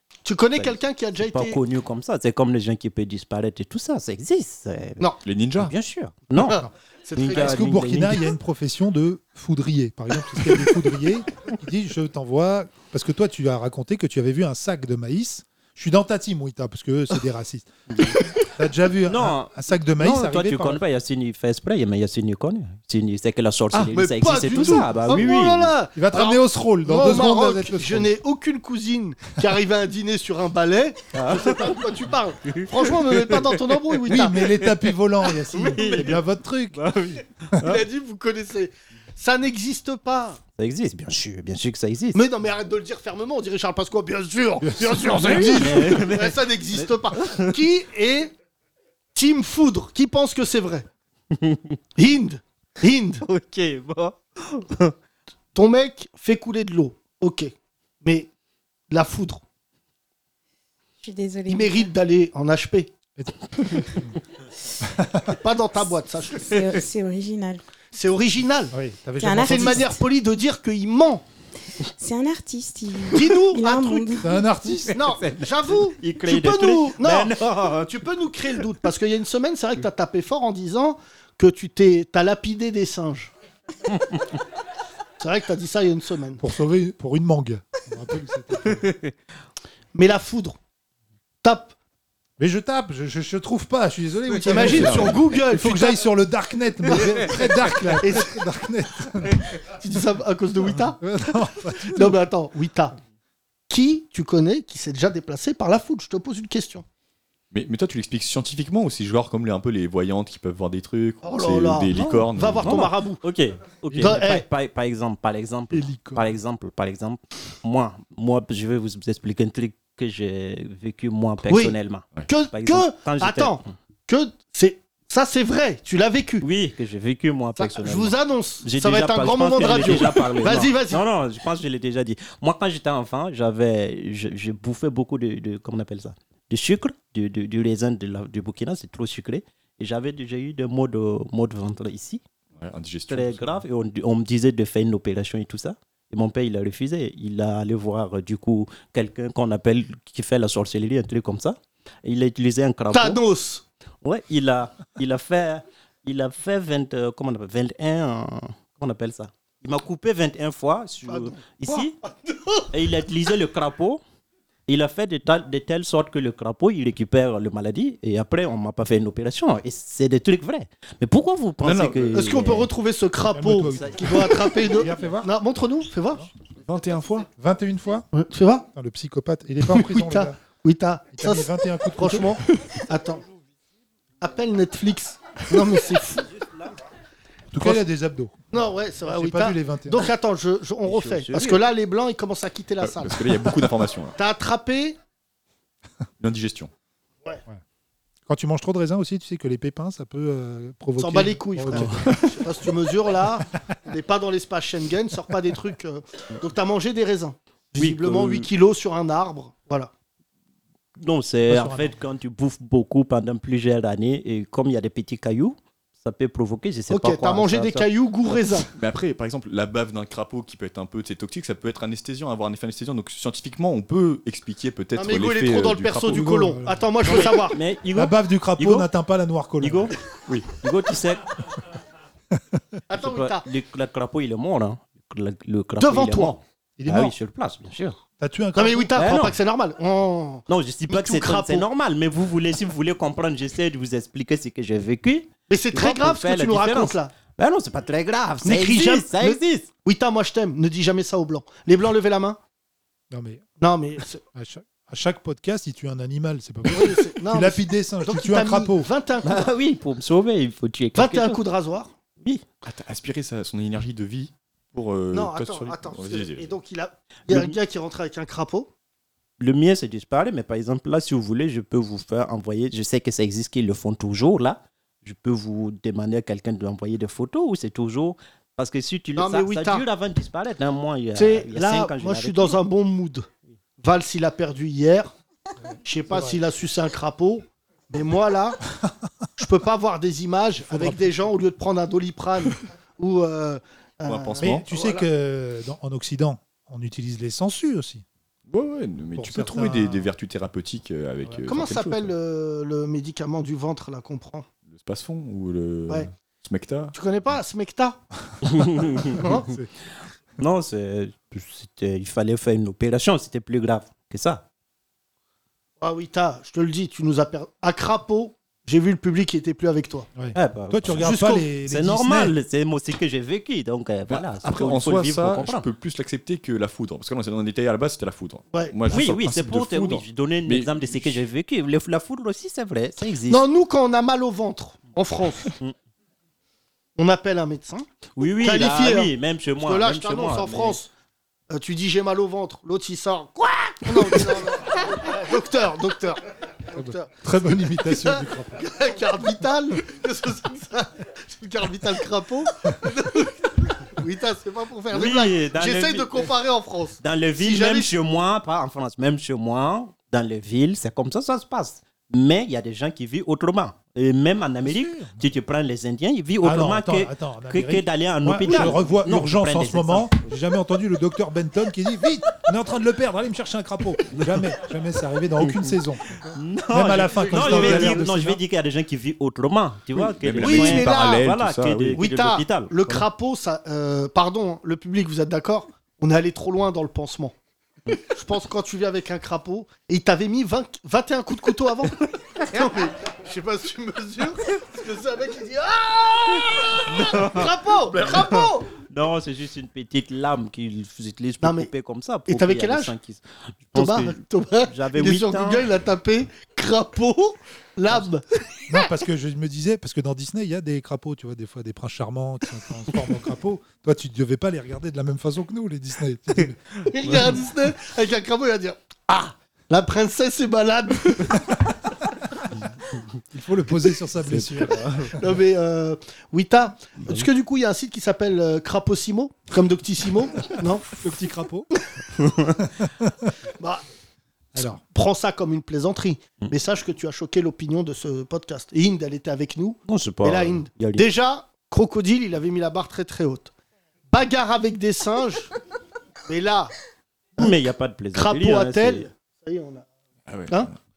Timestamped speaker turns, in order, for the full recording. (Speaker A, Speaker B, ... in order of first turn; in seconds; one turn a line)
Speaker A: 0.2-1.6
Speaker B: 0.6-5.0
Speaker C: 5.2-5.7
Speaker B: 5.6-6.6
Speaker A: 6.4-7.6
Speaker B: 7.2-8.3
Speaker D: 7.3-20.8
Speaker B: 19.1-25.7
Speaker A: 23.9-34.6
Speaker D: 24.5-25.2
Speaker D: 25.9-28.1
Speaker B: 31.1-31.8
Speaker B: 32.5-33.6
Speaker D: 34.1-36.8
Speaker A: 35.5-36.1
Speaker B: 35.6-36.2
Speaker B: 36.7-37.8
Speaker A: 37.6-40.4
Speaker B: 40.6-42.2
Speaker A: 42.1-48.3
Speaker D: 44.6-45.8
Speaker B: 45.2-47.5
Speaker A: 49.1-50.9
Speaker B: 51.4-51.6
Speaker A: 52.0-53.2
Speaker B: 53.2-54.9
Speaker A: 55.5-57.5
Speaker A: 58.0-58.3
Speaker A: 58.9-59.4
Speaker E: 61.0-61.9
Speaker A: 61.5-62.9
Speaker D: 63.8-64.1
Speaker D: 64.9-65.3
Speaker A: 65.4-66.6
Speaker E: 66.4-67.6
Speaker A: 67.9-68.7
Speaker D: 68.7-69.9
Speaker E: 69.2-70.0
Speaker A: 69.4-71.2
Speaker E: 72.0-74.4
Speaker A: 73.1-74.2
Speaker D: 74.2-75.0
Speaker A: 74.9-83.3
Speaker B: 75.0-77.9
Speaker A: 85.2-86.4
Speaker D: 86.4-88.9
Speaker B: 88.8-89.1
Speaker A: 89.9-90.6
Speaker A: 91.4-91.7
Speaker D: 92.4-99.4
Speaker A: 94.4-96.0
Speaker C: 94.5-95.2
Speaker A: 96.9-98.3
Speaker A: 99.6-101.1
Speaker D: 101.0-102.2
Speaker A: 101.8-103.0
Speaker A: 103.7-106.8
Speaker C: 107.5-112.9
Speaker A: 111.2-113.2
Speaker B: 112.0-123.7
Speaker A: 113.9-114.4
Speaker D: 115.7-116.2
Speaker A: 121.5-121.7
Speaker A: 122.3-126.4
Speaker B: 126.4-142.2
Speaker A: 127.6-131.0
Speaker C: 142.6-143.6
Speaker B: 143.1-153.2
Speaker A: 152.9-153.6
Speaker B: 154.0-161.9
Speaker A: 161.1-162.7
Speaker B: 162.7-164.0
Speaker B: 164.7-172.7
Speaker C: 171.6-172.2
Speaker A: 172.1-176.3
Speaker D: 173.3-175.3
Speaker C: 176.7-177.3
Speaker D: 177.3-178.1
Speaker A: 178.1-178.7
Speaker D: 178.7-180.3
Speaker A: 179.7-183.2
Speaker D: 181.2-182.4
Speaker A: 184.2-186.3
Speaker D: 187.5-188.4
Speaker A: 188.5-193.3
Speaker D: 189.1-190.1
Speaker B: 190.8-191.6
Speaker C: 192.8-194.1
Speaker A: 194.2-195.0
Speaker C: 196.2-196.7
Speaker D: 198.3-202.0
Speaker A: 201.0-209.9
Speaker B: 207.8-208.5
Speaker B: 211.0-217.9
Speaker D: 211.5-211.9
Speaker A: 216.9-218.7
Speaker C: 218.8-226.3
Speaker A: 224.9-227.6
Speaker D: 226.0-226.8
Speaker B: 227.0-228.9
Speaker D: 227.9-229.9
Speaker B: 229.6-229.9
Speaker C: 230.3-230.6
Speaker B: 230.5-231.2
Speaker A: 232.9-233.4
Speaker B: 232.9-238.0
Speaker A: 235.8-236.4
Speaker D: 236.8-237.1
Speaker D: 238.2-238.9
Speaker A: 238.6-241.7
Speaker B: 238.9-239.4
Speaker B: 240.5-249.7
Speaker A: 245.5-247.1
Speaker A: 248.4-252.4
Speaker D: 253.1-253.4
Speaker A: 253.6-254.2
Speaker D: 254.3-258.9
Speaker A: 256.7-259.5
Speaker B: 259.2-261.4
Speaker A: 260.9-261.9
Speaker C: 262.6-266.5
Speaker A: 265.1-268.7
Speaker B: 267.3-267.6
Speaker B: 269.4-282.6
Speaker A: 279.2-279.8
Speaker A: 281.1-283.3
Speaker A: 283.8-285.1
Speaker A: 285.8-288.6
Speaker A: 289.4-295.1
Speaker D: 290.6-291.1
Speaker C: 294.1-294.7
Speaker D: 294.4-298.0
Speaker C: 298.5-302.1
Speaker D: 299.1-300.1
Speaker A: 301.5-304.5
Speaker C: 304.7-306.9
Speaker A: 306.9-308.0
Speaker B: 308.5-309.2
Speaker A: 309.1-309.5
Speaker D: 309.2-309.7
Speaker B: 310.4-314.4
Speaker A: 315.8-320.1
Speaker D: 320.2-322.3
Speaker B: 320.3-321.0
Speaker A: 321.0-321.4
Speaker B: 321.7-325.6
Speaker C: 324.1-331.2
Speaker B: 328.9-333.4
Speaker A: 333.3-335.5
Speaker A: 336.9-337.8
Speaker B: 338.2-340.8
Speaker A: 338.4-340.9
Speaker A: 341.5-347.1
Speaker D: 346.7-348.6
Speaker A: 347.8-357.9
Speaker B: 354.9-356.3
Speaker B: 357.0-370.4
Speaker D: 364.6-365.2
Speaker D: 366.4-378.4
Speaker A: 368.4-368.8
Speaker B: 375.4-375.8
Speaker B: 376.3-383.0
Speaker A: 377.2-378.0
Speaker C: 379.9-382.0
Speaker A: 380.4-381.3
Speaker A: 381.9-387.3
Speaker A: 388.0-398.7
Speaker B: 396.9-405.6
Speaker A: 401.4-401.7
Speaker A: 402.3-402.9
Speaker A: 403.8-408.4
Speaker D: 408.7-416.6
Speaker A: 416.9-421.7
Speaker D: 423.3-425.1
Speaker B: 424.3-425.1
Speaker A: 425.2-431.0
Speaker D: 431.0-431.7
Speaker B: 432.2-432.5
Speaker D: 433.0-433.3
Speaker A: 433.6-433.8
Speaker D: 434.5-434.8
Speaker A: 434.9-443.5
Speaker B: 439.9-441.1
Speaker A: 444.1-445.5
Speaker A: 446.3-446.7
Speaker B: 447.4-449.1
Speaker A: 448.1-449.9
Speaker C: 450.3-450.8